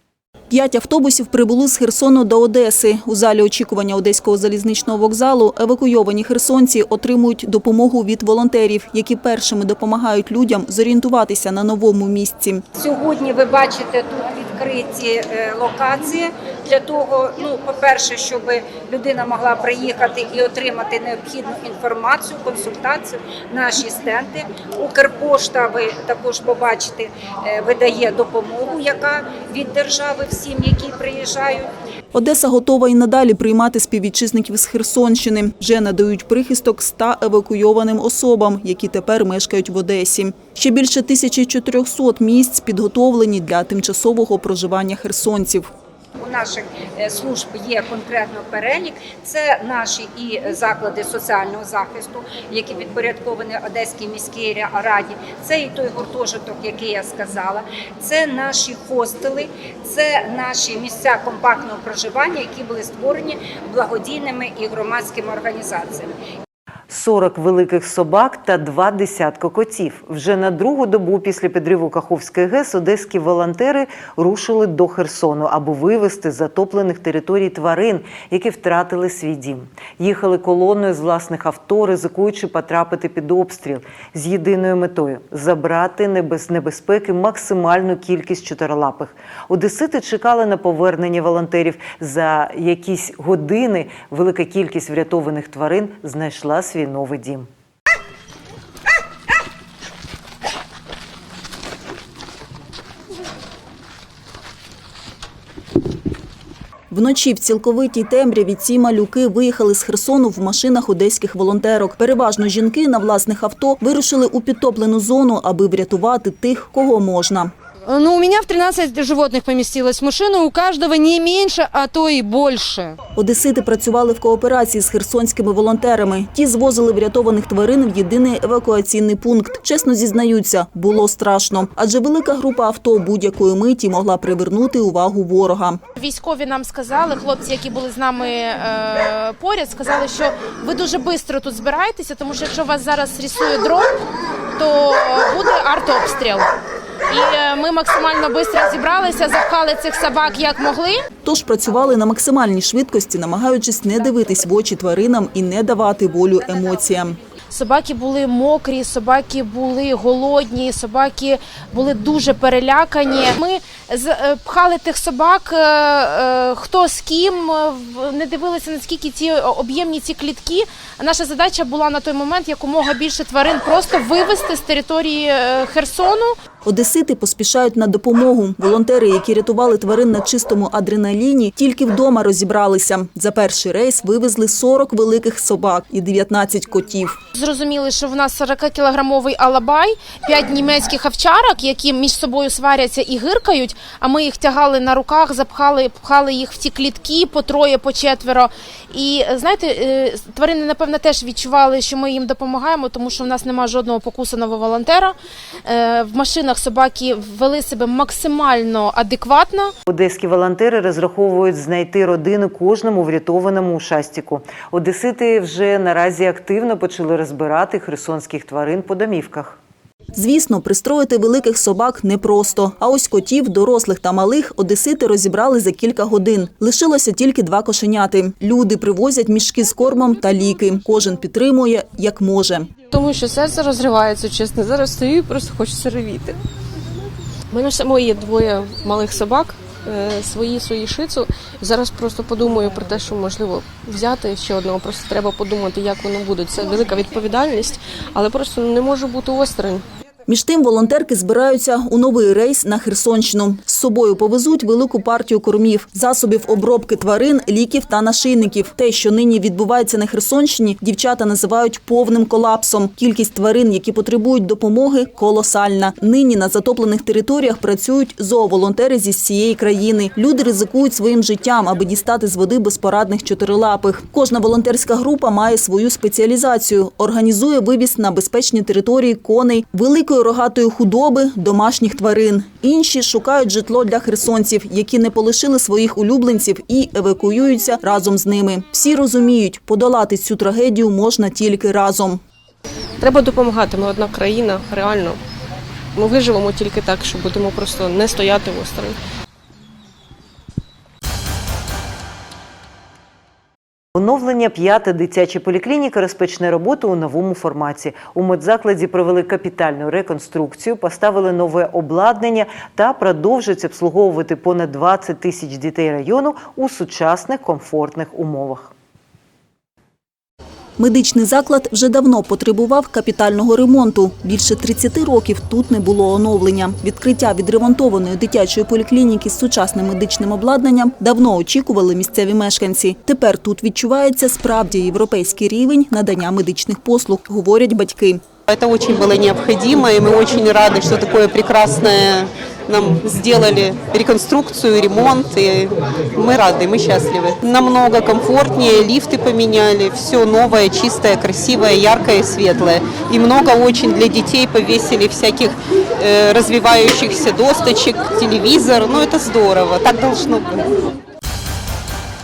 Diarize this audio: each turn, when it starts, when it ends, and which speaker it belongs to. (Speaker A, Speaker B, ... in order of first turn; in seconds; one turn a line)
Speaker A: 0.5-12.6
Speaker B: 12.8-31.7
Speaker A: 32.1-45.7
Speaker B: 46.2-66.1
Speaker C: 66.9-97.5
Speaker A: 106.9-117.5
Speaker D: 117.9-123.0
Speaker A: 123.2-135.8
Speaker E: 136.0-144.1
Speaker E: 144.6-146.5
Speaker E: 147.1-151.0
Speaker A: 151.2-157.2
Speaker E: 157.5-176.3
Speaker A: 176.7-187.2
Speaker E: 187.3-209.7
Speaker C: 209.9-219.6
Speaker A: 220.2-232.7
Speaker F: 232.9-236.4
Speaker F: 237.5-249.8
Speaker A: 250.3-292.2
Speaker F: 293.0-295.2
Speaker F: 295.9-299.0
Speaker C: 303.9-318.7
Speaker A: 320.8-338.2
Speaker G: 338.5-360.7